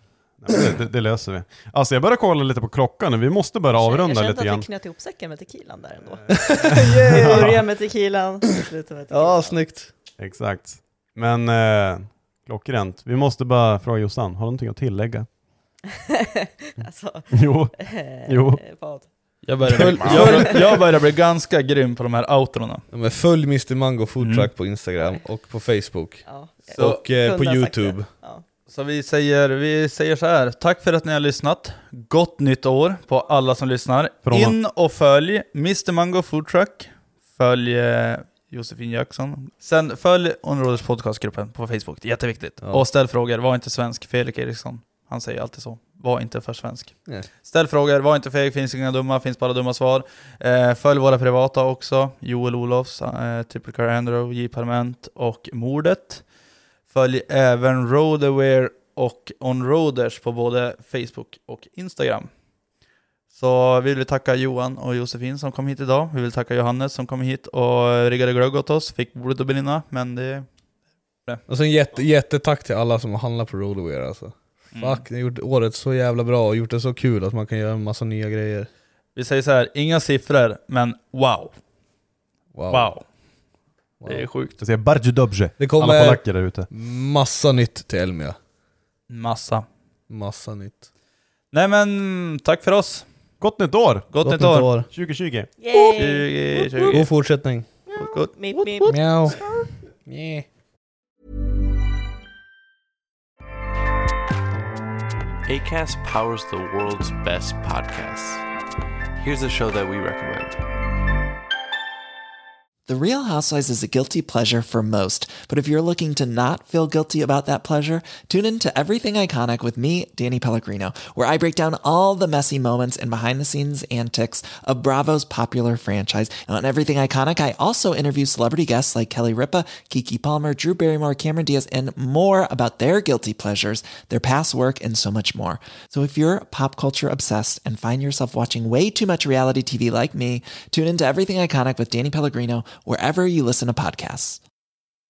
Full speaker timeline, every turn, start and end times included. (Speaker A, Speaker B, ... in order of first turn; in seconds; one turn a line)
Speaker A: 0.3-4.7
Speaker B: 3.8-9.7
Speaker A: 6.1-7.6
Speaker C: 6.3-7.5
Speaker C: 8.5-9.9
Speaker A: 10.2-15.3
Speaker B: 16.7-19.1
Speaker A: 17.3-18.6
Speaker D: 19.4-22.8
Speaker C: 19.7-20.8
Speaker A: 19.9-20.5
Speaker B: 20.2-20.6
Speaker C: 22.9-28.1
Speaker D: 24.2-24.5
Speaker B: 26.3-28.4
Speaker D: 26.7-27.0
Speaker D: 28.7-56.2
Speaker A: 34.2-34.6
Speaker D: 56.9-62.3
Speaker D: 63.3-70.5
Speaker C: 71.5-78.7
Speaker D: 74.7-75.0
Speaker D: 79.2-81.5
Speaker C: 82.5-82.9
Speaker D: 82.7-83.0
Speaker C: 84.0-84.3
Speaker D: 84.1-84.6
Speaker A: 84.6-86.7
Speaker C: 85.6-88.4
Speaker D: 89.1-89.7
Speaker C: 90.1-90.9
Speaker D: 91.5-93.0
Speaker A: 93.4-94.1
Speaker D: 94.1-94.7
Speaker C: 94.2-94.9
Speaker A: 94.9-95.5
Speaker B: 95.6-97.1
Speaker D: 95.9-97.1
Speaker C: 96.9-97.7
Speaker B: 97.9-99.8
Speaker D: 98.0-99.0
Speaker C: 98.8-99.4
Speaker C: 100.1-100.5
Speaker E: 105.5-108.4
Speaker E: 109.2-110.6
Speaker F: 112.9-144.4